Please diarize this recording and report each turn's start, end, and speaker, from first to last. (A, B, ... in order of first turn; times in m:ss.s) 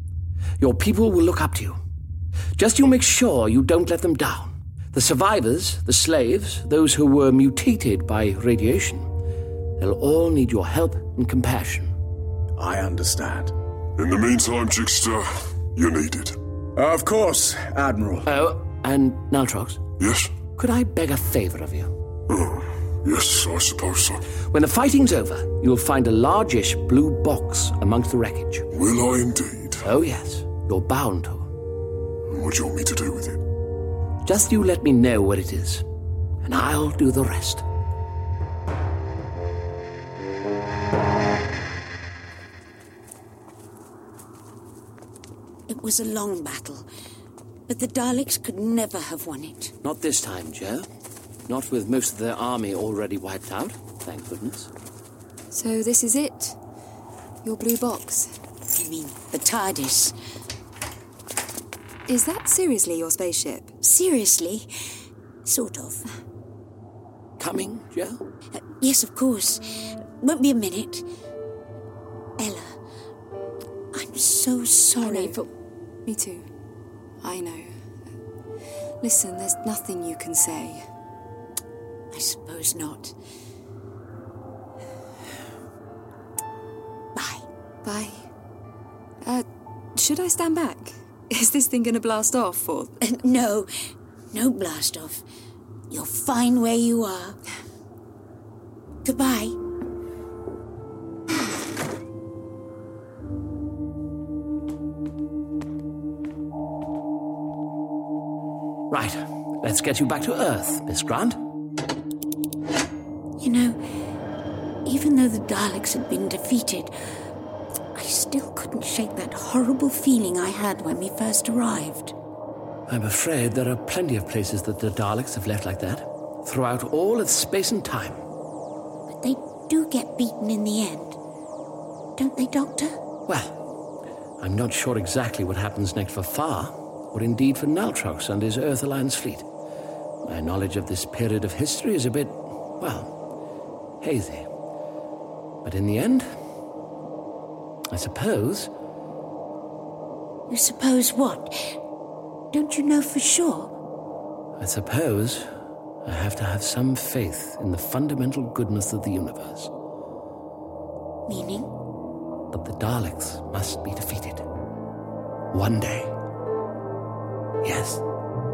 0:00.6-0:01.8 A
0:02.6-0:09.1 A
0:09.8-0:11.9 A
0:12.6-0:13.5 B
0:14.0-0:16.4 C
0:16.8-0:18.3 B
0:18.2-0:19.8 A
0:20.0-0:20.4 C
0:20.5-0:21.9 A
0:22.3-0:24.2 C
0:24.4-0:28.6 A
0:28.7-0:29.8 C
0:29.8-0:31.5 A
0:32.3-0:33.4 C
0:34.2-0:35.8 A
0:36.4-0:37.6 A
0:45.7-0:46.8 D
0:47.7-0:49.7 D
0:49.8-0:50.8 A
0:51.5-0:54.7 A
0:55.5-0:56.6 E
0:57.4-0:58.3 E
0:58.7-1:00.1 D
1:02.1-1:03.7 E
1:03.8-1:04.7 D
1:05.4-1:06.0 D
1:07.4-1:08.2 A
1:08.7-1:11.0 D
1:12.4-1:12.7 D
1:13.9-1:15.4 D
1:15.0-1:15.4 E
1:16.0-1:16.5 E
1:17.2-1:17.7 E
1:19.0-1:20.8 E
1:22.1-1:23.1 D
1:27.2-1:27.4 D
1:27.8-1:28.2 E
1:29.2-1:32.9 E
1:33.0-1:33.7 D
1:34.3-1:35.2 D
1:35.9-1:37.4 D
1:39.0-1:39.6 D
1:48.9-1:51.4 A
1:53.4-1:53.8 D
1:54.8-1:56.9 D
1:57.9-2:02.1 D
2:02.9-2:08.2 A
2:09.1-2:11.2 D
2:12.2-2:13.0 D
2:13.3-2:13.5 A
2:14.4-2:19.4 A
2:20.2-2:23.1 A
2:24.0-2:24.5 A
2:25.6-2:26.3 A
2:27.9-2:28.7 A
2:30.5-2:31.8 D
2:32.5-2:33.7 D
2:34.6-2:35.4 A
2:36.0-2:39.7 A
2:41.3-2:41.7 D
2:42.5-2:44.4 A
2:45.5-2:46.1 A
2:47.6-2:48.0 A